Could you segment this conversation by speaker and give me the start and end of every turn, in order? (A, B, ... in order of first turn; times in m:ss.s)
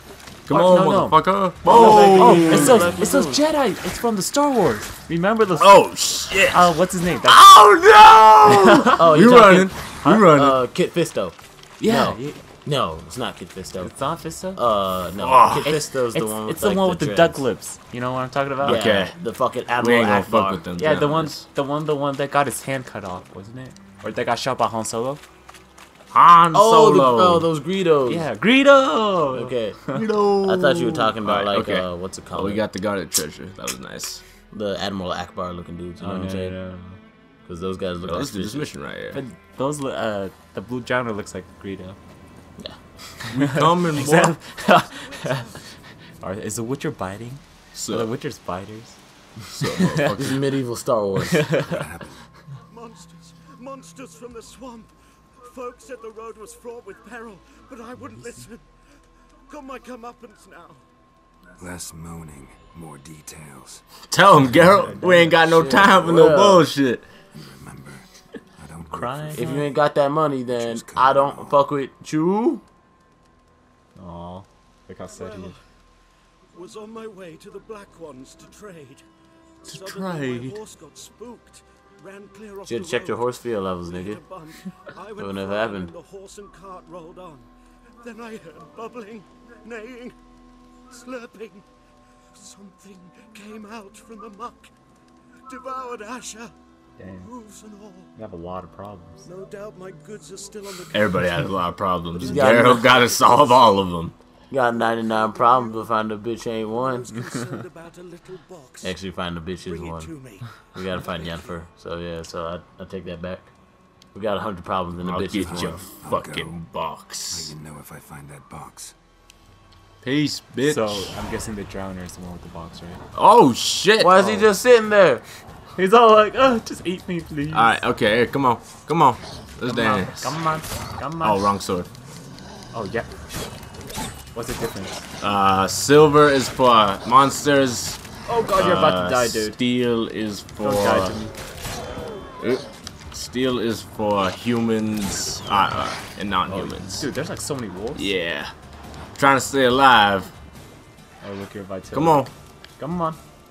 0:00.5-0:03.0 A
0:00.5-0:05.7 B
0:01.6-0:03.4 C
0:05.6-0:10.6 A
0:06.5-0:07.5 B
0:08.4-0:10.3 B
0:09.0-0:13.9 C
0:11.8-0:12.4 B
0:13.8-0:14.6 B
0:14.6-0:17.4 C
0:15.2-0:15.8 A
0:15.6-0:18.8 B
0:18.6-0:19.2 A
0:18.6-0:20.6 C
0:19.8-0:21.4 A
0:20.8-0:25.2 B
0:26.1-0:27.5 A
0:26.5-0:28.3 C
0:28.1-0:30.0 B
0:29.3-0:29.8 C
0:29.9-0:34.2 A
0:30.4-0:32.6 C
0:34.5-0:36.5 C
0:36.0-0:37.0 B
0:37.4-0:38.7 C
0:38.0-0:39.2 A
0:39.1-0:42.0 B
0:43.2-0:49.0 B
0:43.3-0:44.3 A
0:44.7-0:45.6 D
0:47.7-0:48.1 A
0:49.5-0:50.5 A
0:49.8-0:50.1 B
0:50.2-0:51.5 C
0:51.2-0:51.8 B
0:51.5-0:52.3 E
0:52.7-0:58.7 D
0:58.0-0:58.4 B
0:59.4-1:00.8 D
1:01.6-1:03.8 E
1:04.1-1:07.0 A
1:04.8-1:05.4 B
1:05.5-1:06.7 C
1:07.3-1:09.6 E
1:08.9-1:09.7 B
1:09.3-1:12.6 C
1:10.5-1:11.7 E
1:14.0-1:15.6 B
1:15.1-1:15.6 D
1:16.5-1:19.0 D
1:19.6-1:20.6 A
1:19.6-1:27.5 D
1:22.6-1:24.2 C
1:25.2-1:25.9 C
1:28.0-1:30.2 D
1:30.9-1:31.7 D
1:32.3-1:34.7 D
1:35.5-1:36.5 D
1:37.0-1:37.3 B
1:37.2-1:38.1 D
1:38.1-1:39.2 B
1:39.2-1:41.6 D
1:40.9-1:44.1 A
1:42.1-1:43.6 D
1:42.2-1:43.1 C
1:44.5-1:47.2 C
1:45.0-1:45.9 D
1:46.7-1:49.0 D
1:48.8-1:50.2 C
1:49.6-1:51.5 D
1:50.7-1:53.5 C
1:54.1-1:55.8 C
1:55.0-1:57.5 A
1:55.4-1:56.6 E
1:57.3-1:58.9 E
2:00.0-2:01.1 A
2:00.6-2:03.0 B
2:03.1-2:04.5 A
2:04.0-2:05.2 C
2:05.8-2:07.8 B
2:07.5-2:10.4 A
2:09.6-2:11.5 B
2:11.2-2:11.9 A
2:12.7-2:13.1 B
2:14.3-2:15.0 B
2:15.2-2:21.2 A
2:18.2-2:19.6 B
2:20.6-2:21.3 B
2:22.4-2:27.1 A
2:26.5-2:28.1 B
2:28.0-2:28.5 A
2:29.2-2:30.3 A
2:31.2-2:33.2 B
2:31.9-2:32.3 A